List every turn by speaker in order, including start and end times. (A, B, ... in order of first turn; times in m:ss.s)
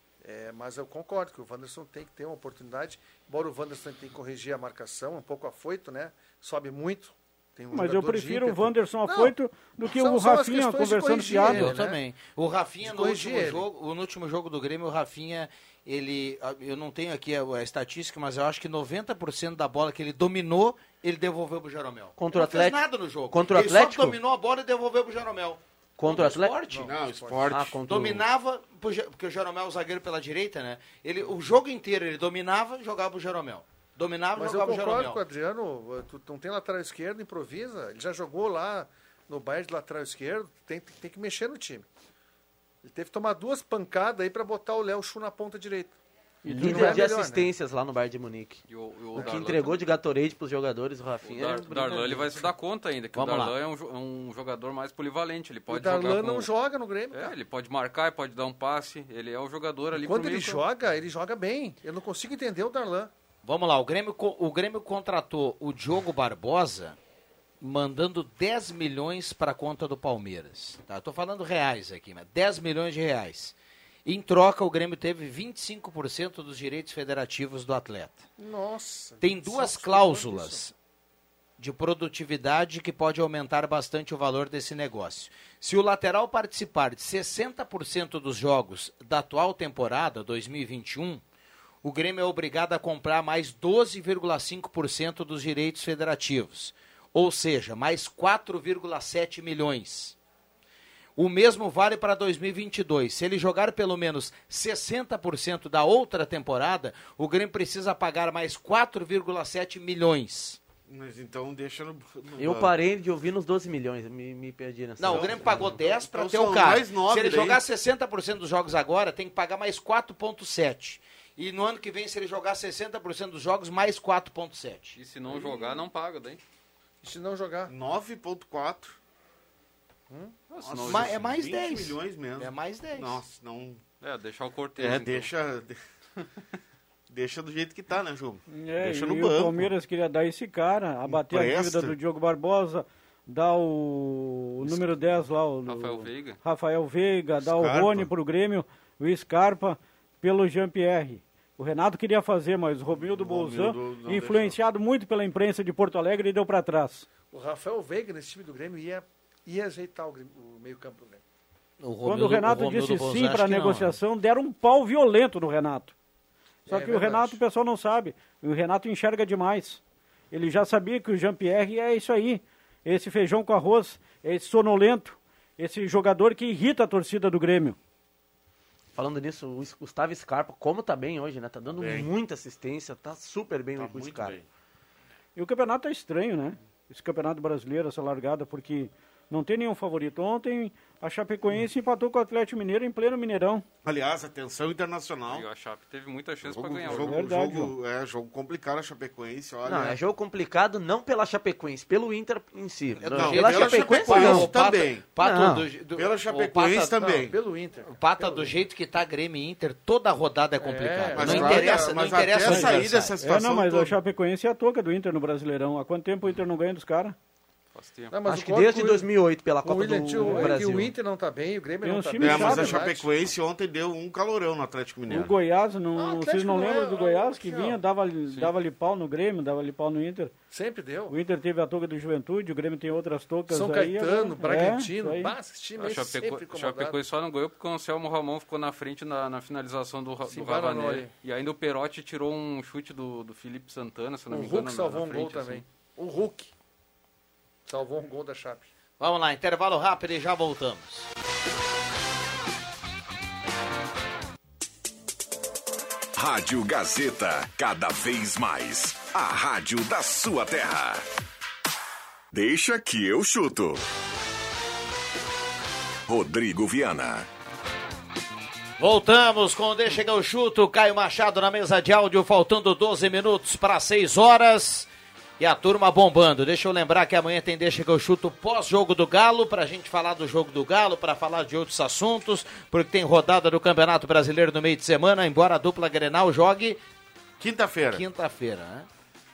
0:00.2-0:09.3 A
0:07.7-0:11.7 B
0:09.8-0:12.0 A
0:11.4-0:26.9 C
0:12.8-0:13.6 A
0:22.2-0:22.8 D
0:23.3-0:24.2 D
0:26.0-0:26.6 D
0:26.1-0:27.5 A
0:26.8-0:27.9 E
0:27.5-0:28.2 D
0:27.8-0:35.2 C
0:34.4-0:41.9 A
0:42.8-0:45.9 A
0:46.4-0:47.0 B
0:46.5-0:48.6 D
0:46.6-0:47.5 A
0:48.7-0:49.9 F
0:49.1-0:49.5 A
0:49.2-0:52.4 D
0:51.2-0:56.5 F
0:53.1-0:53.5 C
0:55.7-0:57.3 A
0:57.1-1:00.6 F
0:59.9-1:03.1 A
1:03.4-1:07.0 C
1:07.6-1:18.2 C
1:18.4-1:20.6 A
1:19.2-1:20.7 C
1:21.6-1:31.2 C
1:31.8-1:40.2 C
1:41.2-1:50.6 C
1:50.9-1:52.7 E
1:52.4-1:55.8 D
1:55.0-2:05.0 C
1:55.1-1:57.6 E
2:05.0-2:06.4 F
2:05.3-2:05.8 A
2:07.0-2:07.7 A
2:07.7-2:09.0 E
2:10.1-2:10.3 A
2:10.5-2:11.2 F
2:10.6-2:13.8 E
2:10.8-2:13.2 C
2:14.0-2:15.3 F
2:14.8-2:15.8 E
2:17.1-2:19.7 E
2:18.5-2:37.1 B
2:21.1-2:22.0 E
2:25.7-2:26.4 F
2:27.4-2:28.1 E
2:33.0-2:34.6 E
2:37.3-2:41.2 A
2:41.8-2:44.0 C
2:42.0-2:45.9 B
2:46.7-2:57.8 B
2:46.7-2:47.4 A
2:59.0-3:04.4 D
3:01.7-3:02.1 E
3:03.8-3:04.4 E
3:05.4-3:13.6 B
3:13.8-3:15.4 E
3:15.3-3:17.2 F
3:16.4-3:20.0 E
3:16.9-3:17.7 B
3:19.6-3:24.5 D
3:23.0-3:27.2 C
3:23.1-3:25.1 E
3:25.2-3:25.7 D
3:25.9-3:27.4 E
3:27.0-3:28.5 A
3:27.9-3:33.1 C
3:30.6-3:32.2 A
3:31.1-3:34.0 E
3:31.2-3:31.6 D
3:32.4-3:32.7 B
3:33.2-3:37.2 B
3:37.7-3:38.1 F
3:38.1-3:43.1 A
3:38.2-3:40.9 D
3:40.2-3:40.6 B
3:41.8-3:42.8 B
3:42.2-3:45.3 E
3:45.1-3:50.3 B
3:46.0-3:47.8 A
3:50.5-3:51.1 A
3:51.1-3:55.3 B
3:53.5-3:57.0 A
3:55.8-4:05.6 F
4:00.3-4:01.1 A
4:04.3-4:06.5 A
4:07.7-4:08.7 A
4:09.0-4:11.1 C
4:16.2-4:21.0 G
4:22.3-4:23.8 G
4:26.1-4:27.3 G
4:28.8-4:46.8 C
4:47.4-4:48.0 E
4:47.9-4:48.9 C